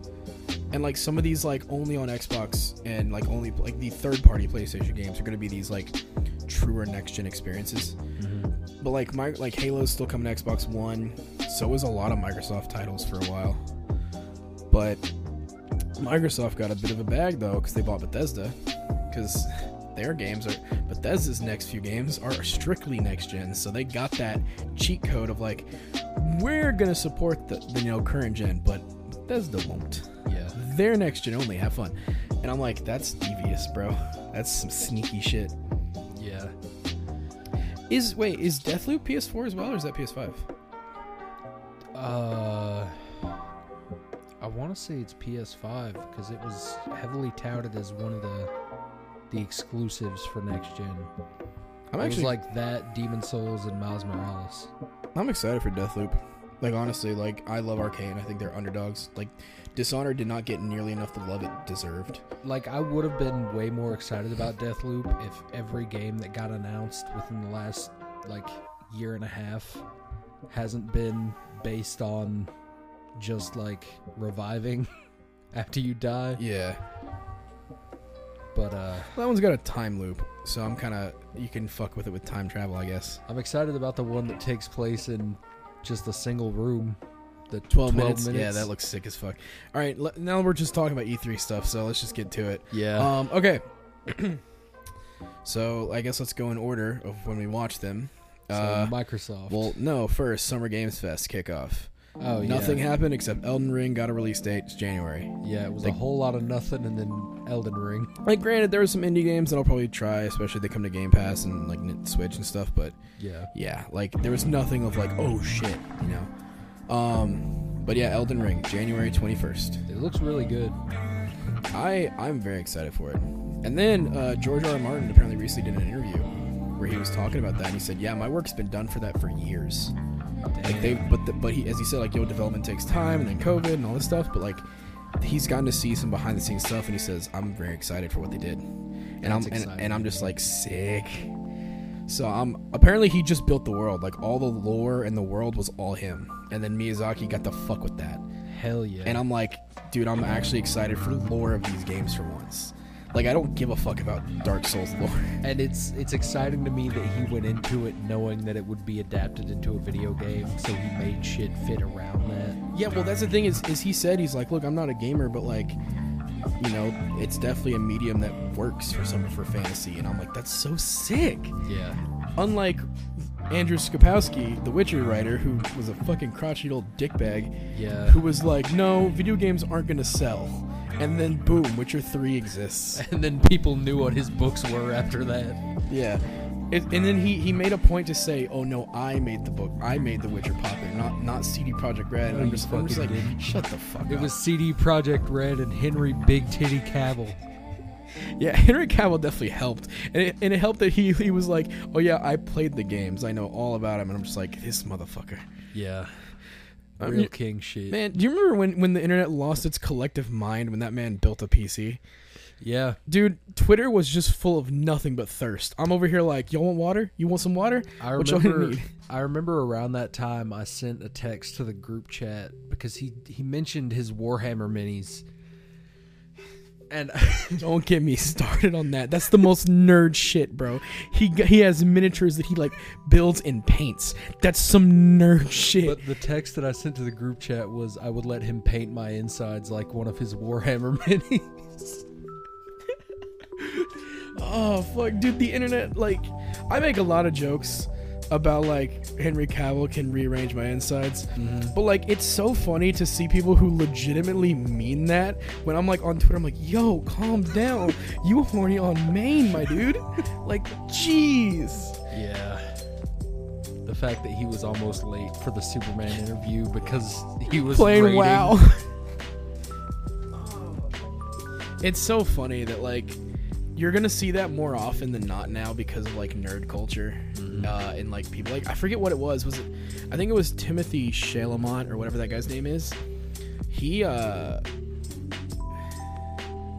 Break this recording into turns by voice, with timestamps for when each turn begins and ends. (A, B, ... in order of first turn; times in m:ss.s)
0:00.7-0:08.0 A
0:08.2-0:08.6 B
0:08.8-0:13.6 A
0:14.7-0:15.1 A
0:16.0-0:18.6 A
0:19.1-0:35.6 A
0:30.3-0:30.6 B
0:36.1-0:36.6 B
0:37.9-0:40.5 A
0:42.0-0:43.0 B
0:44.4-0:48.5 B
0:49.3-0:51.1 B
0:51.9-0:52.4 A
0:52.0-0:54.7 B
0:55.2-1:02.2 A
1:02.4-1:09.8 B
1:10.5-1:12.5 B
1:13.2-1:14.9 B
1:15.5-1:16.4 B
1:16.4-1:16.8 A
1:18.5-1:19.2 B
1:19.1-1:23.2 A
1:23.3-1:27.0 B
1:27.5-1:28.7 B
1:27.7-1:34.4 A
1:32.7-1:33.2 B
1:35.4-1:39.0 A
1:38.5-1:39.7 B
1:39.5-1:41.9 A
1:42.2-1:42.9 B
1:42.4-1:46.0 A
1:45.4-1:48.2 B
1:48.2-1:53.0 A
1:53.2-1:53.5 B
1:53.5-1:56.3 A
1:56.9-1:59.8 A
1:59.9-2:00.8 B
2:01.7-2:10.0 A
2:10.5-2:11.1 B
2:10.6-2:14.6 A
2:15.2-2:18.6 A
2:19.2-2:21.3 A
2:19.2-2:20.3 B
2:22.1-2:28.2 A
2:28.5-2:29.2 B
2:29.0-2:35.4 A
2:35.4-2:42.6 B
2:42.7-2:45.8 A
2:46.6-2:51.6 A
2:51.6-2:52.0 B
2:52.4-3:03.0 A
2:57.7-2:58.2 B
3:03.0-3:05.6 B
3:05.9-3:14.3 A
3:12.2-3:13.4 B
3:14.1-3:17.4 B
3:18.4-3:25.5 A
3:25.7-3:26.2 B
3:27.0-3:27.3 A
3:27.0-3:28.0 B
3:27.9-3:32.0 A
3:32.6-3:33.0 B
3:33.1-3:38.9 A
3:38.0-3:45.2 B
3:46.9-3:47.7 B
3:47.6-3:56.0 A
3:55.8-4:02.1 B
4:03.6-4:22.0 A
4:11.4-4:11.8 B
4:22.1-4:22.8 B
4:23.9-4:28.6 B
4:27.6-4:28.9 A
4:30.3-4:30.9 A
4:31.8-4:33.2 A
4:33.8-4:43.0 A
4:37.3-4:37.8 B
4:43.7-4:44.6 A